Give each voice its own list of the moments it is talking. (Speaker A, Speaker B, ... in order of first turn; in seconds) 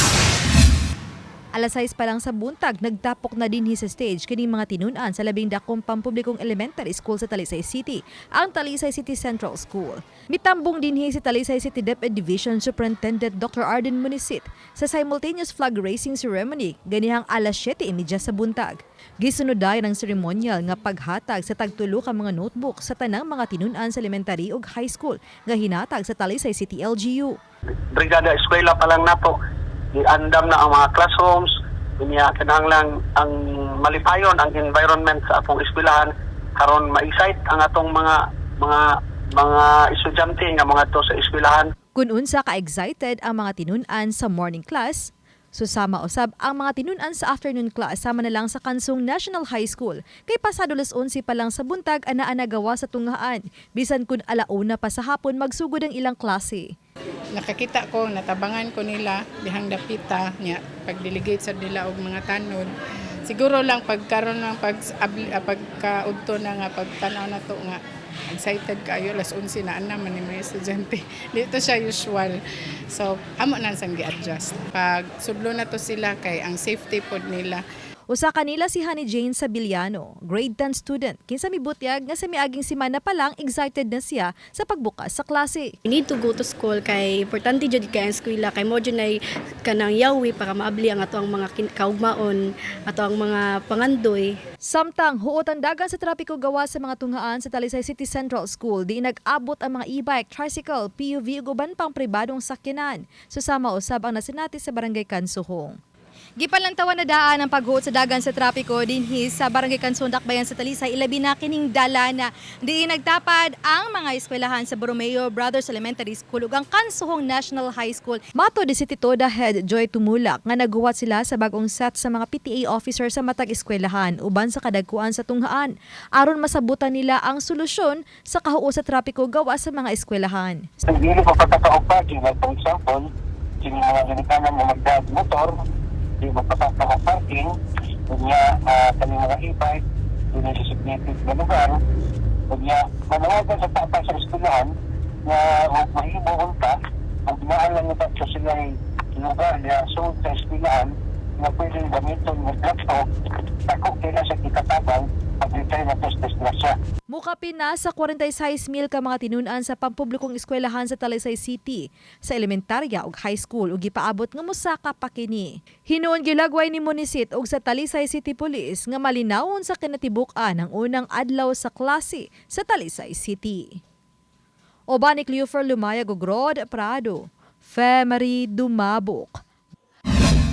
Speaker A: 1.6-27.4, 42.0-56.7, 78.1-85.7, 94.7-105.8, 106.4-130.7, 157.1-173.8, 174.9-179.4
Speaker B: 27.9-29.4, 29.9-31.5, 32.0-38.9, 39.4-41.6
Speaker C: 57.4-62.7, 63.3-72.4, 72.9-77.6
Speaker D: 85.9-94.3
Speaker E: 130.9-133.1, 133.6-135.6, 136.2-137.5, 138.1-139.8, 140.3-141.8, 142.5-144.7, 145.2-146.8, 147.3-153.1, 153.7-156.8